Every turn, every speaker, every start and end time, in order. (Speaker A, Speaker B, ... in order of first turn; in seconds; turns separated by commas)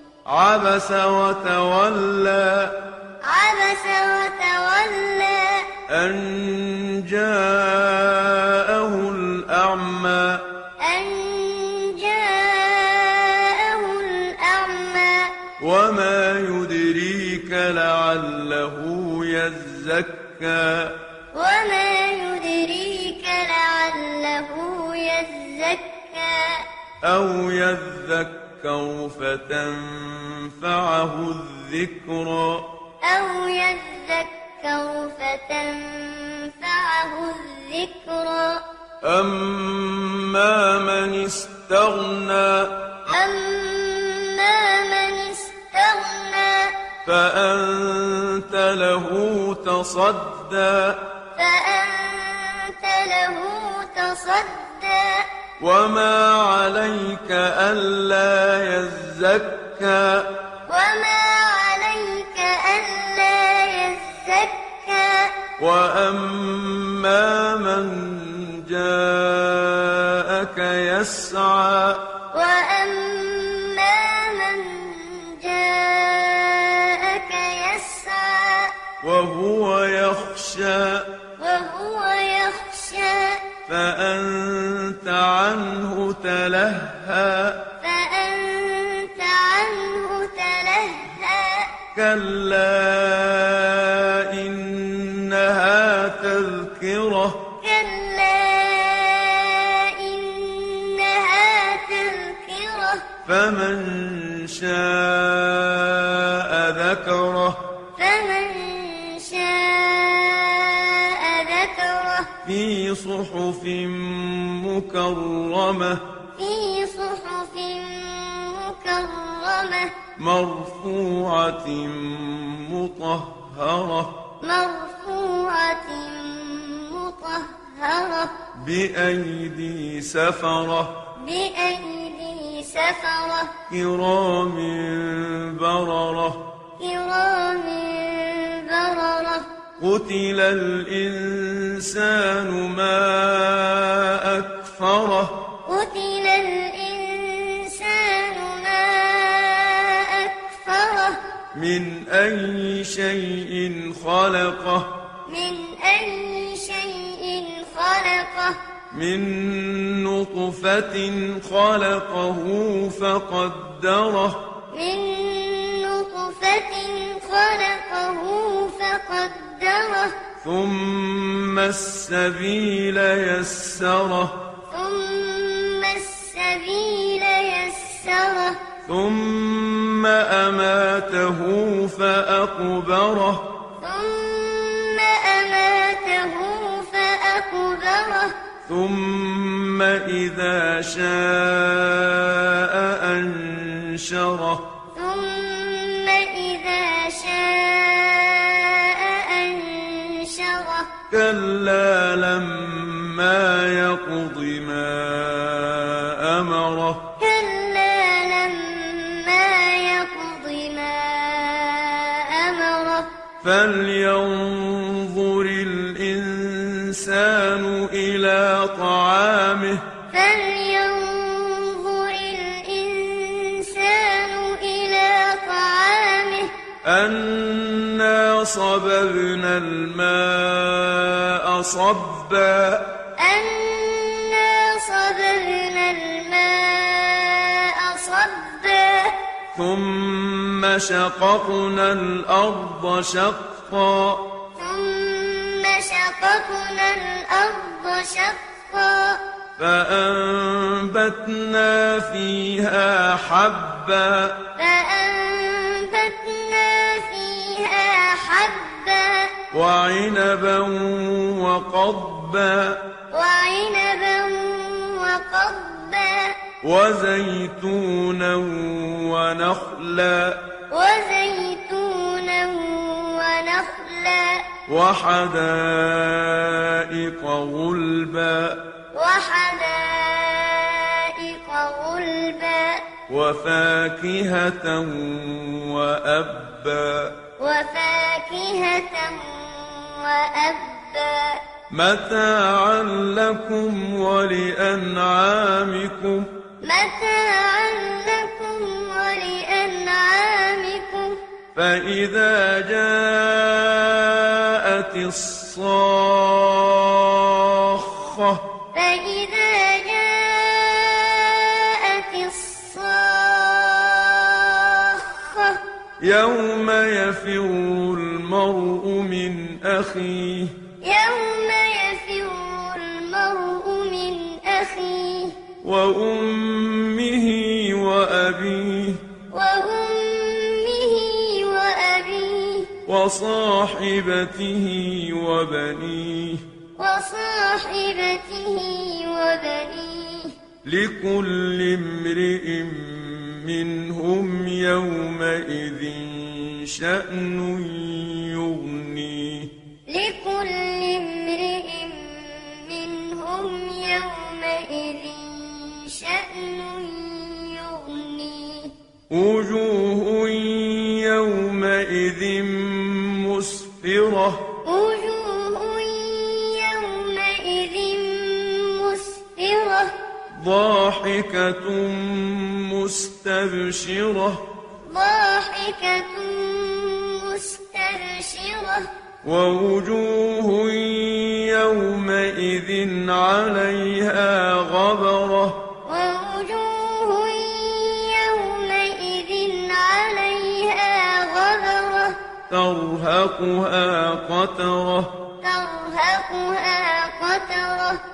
Speaker A: 0.2-2.8, Speaker B: 3.2-5.7, Speaker A: 5.9-10.4, Speaker B: 10.8-15.4, Speaker A: 15.6-21.0, Speaker B: 21.3-26.7, Speaker A: 27.0-32.7, Speaker B: 33.0-38.6, Speaker A: 39.0-43.0, Speaker B: 43.1-46.9, Speaker A: 47.0-51.1, Speaker B: 51.4-55.3, Speaker A: 55.6-60.3, Speaker B: 60.7-65.5, Speaker A: 65.6-72.1, Speaker B: 72.3-78.8, Speaker A: 79.0-81.1, Speaker B: 81.4-83.5, Speaker A: 83.7-87.7, Speaker B: 87.8-91.8, Speaker A: 91.9-97.5, Speaker B: 97.6-103.1, Speaker A: 103.2-107.6, Speaker B: 108.0-112.3, Speaker A: 112.4-116.0, Speaker B: 116.3-120.0, Speaker A: 120.2-124.2, Speaker B: 124.4-128.3, Speaker A: 128.6-131.0, Speaker B: 131.2-133.5, Speaker A: 133.7-136.4, Speaker B: 136.8-139.5, Speaker A: 139.8-145.4, Speaker B: 145.7-151.2, Speaker A: 151.5-154.9, Speaker B: 155.2-158.6, Speaker A: 158.9-164.4, Speaker B: 164.7-170.2, Speaker A: 170.4-174.4, Speaker B: 174.7-178.6, Speaker A: 178.9-183.5, Speaker B: 183.8-188.3, Speaker A: 188.7-194.7, Speaker B: 194.9-200.9, Speaker A: 201.1-207.1, Speaker B: 207.2-213.1, Speaker A: 213.4-219.9, Speaker B: 220.1-226.5, Speaker A: 226.8-232.9, Speaker B: 233.2-239.2, Speaker A: 239.5-244.3, Speaker B: 244.6-249.2, Speaker A: 249.6-254.4, Speaker B: 254.6-259.4, Speaker A: 259.5-262.8, Speaker B: 263.1-266.4, Speaker A: 266.6-270.5, Speaker B: 270.7-274.6, Speaker A: 274.6-278.6, Speaker B: 278.9-282.9, Speaker A: 283.1-287.2, Speaker B: 287.4-291.4, Speaker A: 291.7-296.3, Speaker B: 296.6-301.2, Speaker A: 301.5-308.4, Speaker B: 308.7-315.6, Speaker A: 316.0-320.6, Speaker B: 320.8-325.4, Speaker A: 325.6-329.0, Speaker B: 329.3-332.7, Speaker A: 332.9-336.4, Speaker B: 336.8-340.4, Speaker A: 340.6-349.5, Speaker B: 349.9-358.7, Speaker A: 359.1-364.5, Speaker B: 364.6-369.9, Speaker A: 370.3-374.4, Speaker B: 374.9-378.9, Speaker A: 379.2-385.6, Speaker B: 385.9-392.2, Speaker A: 392.5-395.1, Speaker B: 395.4-398.0